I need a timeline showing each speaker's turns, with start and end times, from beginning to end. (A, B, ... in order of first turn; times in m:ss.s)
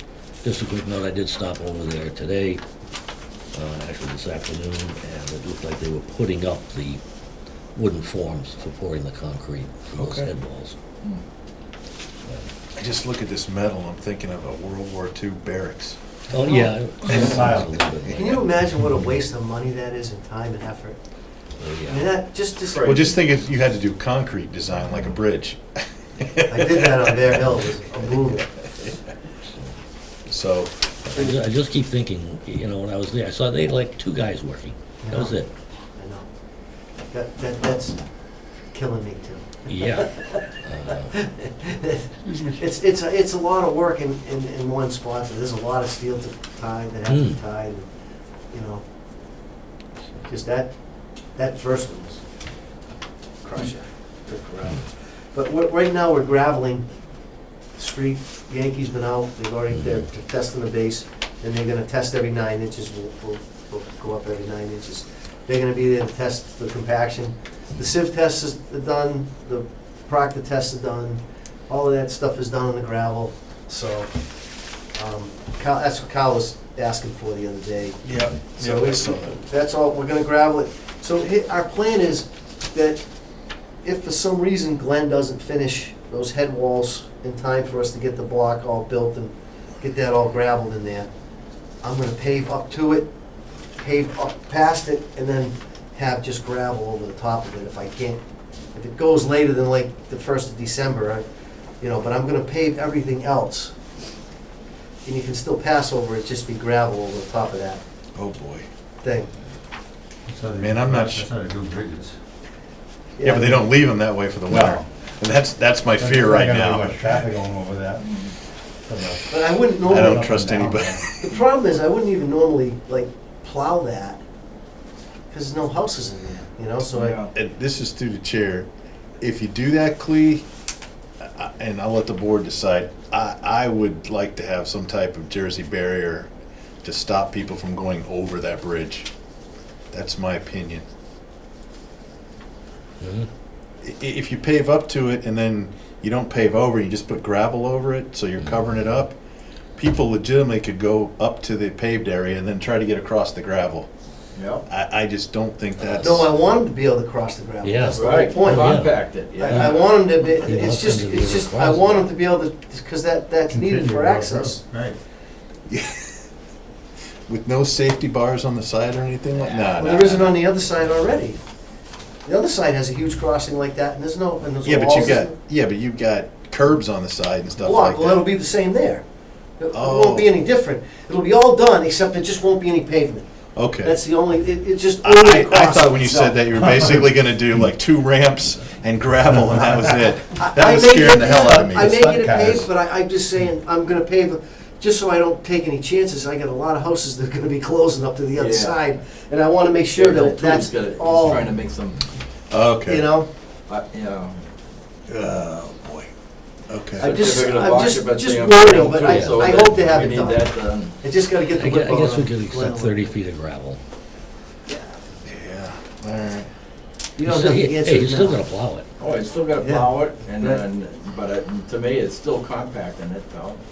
0:00.4-0:02.6 A
0:03.5-0:07.0 A
0:07.8-0:10.8 A
0:09.9-0:10.3 B
0:12.8-0:16.0 B
0:16.3-0:18.5 A
0:17.0-0:18.0 B
0:17.1-0:17.7 C
0:18.1-0:21.0 D
0:21.6-0:22.2 A
0:21.9-0:23.0 D
0:22.7-0:23.2 E
0:22.8-0:27.3 B
0:26.5-0:28.6 D
0:29.4-0:29.8 A
0:30.3-0:30.7 B
0:31.1-0:35.5 A
0:35.0-0:35.4 D
0:36.0-0:36.3 D
0:37.1-0:38.0 D
0:38.7-0:40.4 D
0:39.7-0:41.1 A
0:41.1-0:47.9 D
0:47.1-0:47.4 A
0:48.5-0:48.8 D
0:50.3-0:50.7 D
0:51.4-0:52.2 D
0:53.4-0:56.9 D
0:57.8-1:14.1 D
0:59.8-1:00.0 A
1:14.9-1:18.0 D
1:18.0-1:19.4 B
1:18.6-1:23.1 D
1:23.8-1:31.1 D
1:31.8-1:33.1 D
1:33.8-1:38.2 D
1:38.7-1:41.2 D
1:41.8-1:43.7 D
1:45.0-1:47.8 D
1:48.2-1:48.7 B
1:49.0-1:49.3 D
1:50.3-1:52.2 C
1:50.6-1:51.3 B
1:53.2-1:53.6 D
1:53.2-1:57.3 B
1:54.5-1:54.8 C
1:56.0-1:58.0 C
1:58.0-1:58.4 E
1:58.9-2:01.1 C
1:59.3-2:00.3 D
1:59.9-2:01.3 B
2:01.2-2:04.2 D
2:05.3-2:07.2 D
2:06.9-2:07.3 E
2:07.3-2:08.7 B
2:09.2-2:10.4 B
2:11.2-2:16.3 B
2:16.8-2:19.1 B
2:19.9-2:20.8 B
2:23.0-2:23.3 A
2:23.8-2:29.2 B
2:29.8-2:33.9 B
2:34.4-2:34.7 E
2:34.7-2:36.3 B
2:35.8-2:36.2 A
2:36.0-2:44.6 D
2:37.6-2:42.1 A
2:38.0-2:40.0 E
2:43.5-2:45.0 C
2:45.7-2:46.2 B
2:47.3-2:50.4 B
2:49.3-2:49.9 E
2:49.8-2:51.4 D
2:52.2-2:55.4 D
2:54.6-2:58.3 B
2:57.6-2:59.0 D
2:59.6-3:03.3 D
2:59.7-3:00.3 B
3:03.6-3:04.0 B
3:03.8-3:07.0 D
3:05.0-3:12.1 B
3:10.4-3:21.5 D
3:11.3-3:12.7 C
3:18.3-3:19.0 E
3:19.9-3:22.0 E
3:22.5-3:23.1 B
3:22.9-3:23.3 D
3:23.7-3:24.4 E
3:25.1-3:26.1 B
3:26.7-3:27.1 B
3:27.0-3:31.0 E
3:27.0-3:33.1 D
3:29.0-3:29.5 A
3:31.5-3:33.8 A
3:35.2-3:36.5 B
3:37.2-3:38.4 D
3:37.2-3:38.9 A
3:39.0-3:43.6 E
3:39.6-3:40.6 D